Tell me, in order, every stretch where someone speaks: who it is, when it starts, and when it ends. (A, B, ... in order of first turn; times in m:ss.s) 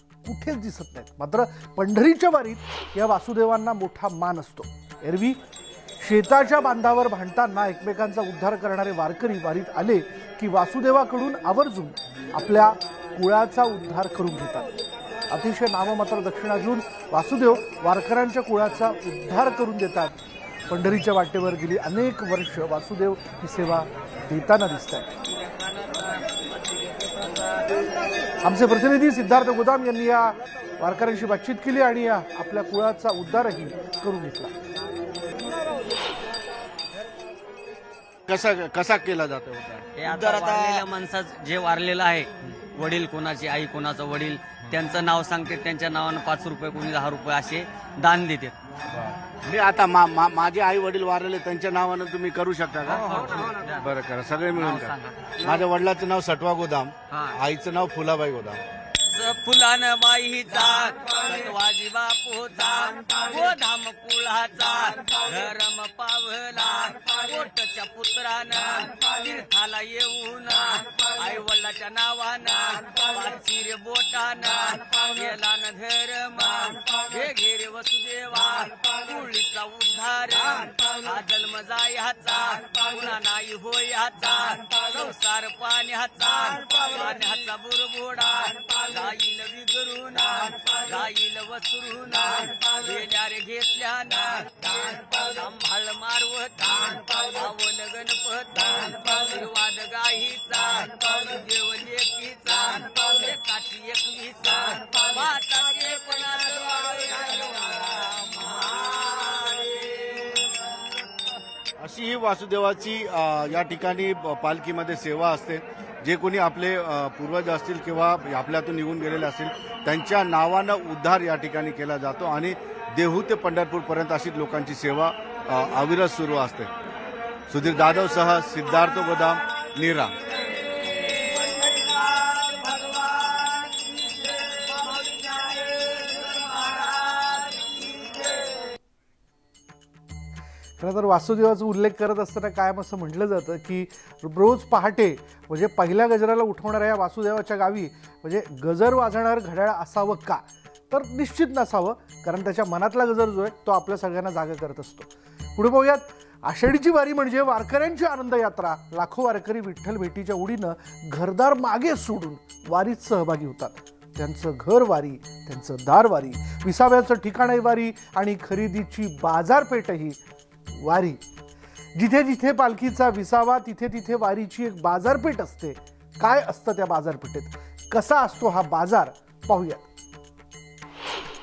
0:00.2-0:05.3 A
0:01.2-0:05.4 B
0:06.0-0:14.7 A
0:06.2-0:10.0 B
0:10.6-0:11.9 B
0:12.6-0:14.2 B
0:15.3-0:20.1 A
0:15.6-0:17.1 B
0:17.6-0:19.2 B
0:19.7-0:20.2 B
0:20.7-0:25.1 A
0:21.4-0:23.8 B
0:28.4-0:30.2 A
0:29.6-0:30.3 B
0:30.8-0:34.5 A
0:31.5-0:32.5 B
0:33.1-0:34.5 B
0:38.3-0:40.8 B
0:40.0-0:48.5 C
0:49.4-0:58.6 B
0:52.9-0:53.9 C
0:54.5-0:55.6 C
0:57.1-0:57.4 C
0:59.1-1:50.4 C
1:51.8-2:06.7 B
2:07.5-2:10.2 B
2:20.8-2:30.1 A
2:22.0-2:23.8 B
2:25.3-2:30.4 B
2:30.9-2:35.0 A
2:31.1-2:35.1 B
2:35.6-2:35.9 A
2:35.7-2:36.1 B
2:36.4-2:50.2 A
2:36.7-2:43.7 B
2:44.9-2:46.5 B
2:49.6-2:50.1 B
2:50.8-2:51.2 A
2:52.0-2:59.8 A